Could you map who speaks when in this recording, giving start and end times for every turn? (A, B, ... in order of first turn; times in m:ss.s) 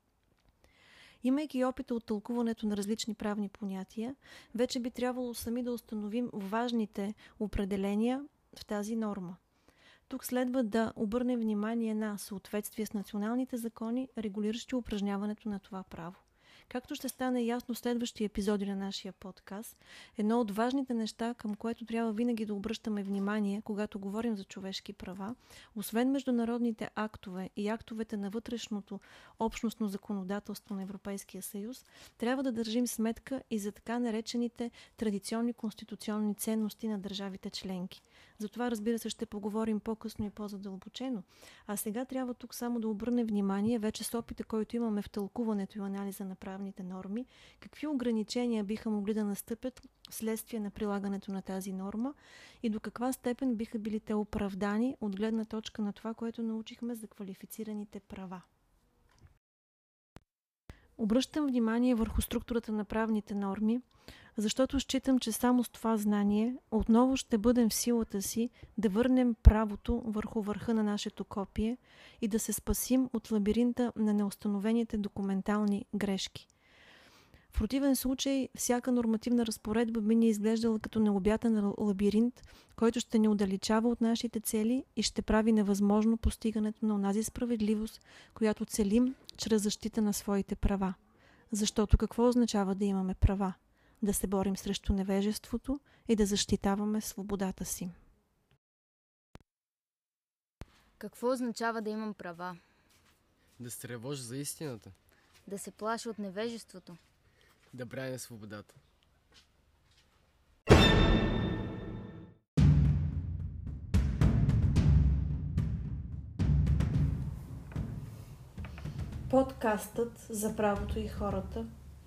0:01.2-0:09.4 A
0:10.1-0:58.4 A
1:01.0-1:03.8 A
1:04.4-1:16.5 A
1:17.5-1:31.0 A
1:31.5-1:38.0 A
1:41.0-1:42.6 B
1:43.6-1:45.0 C
1:45.5-1:47.0 B
1:47.7-1:48.8 C
1:59.3-2:01.7 A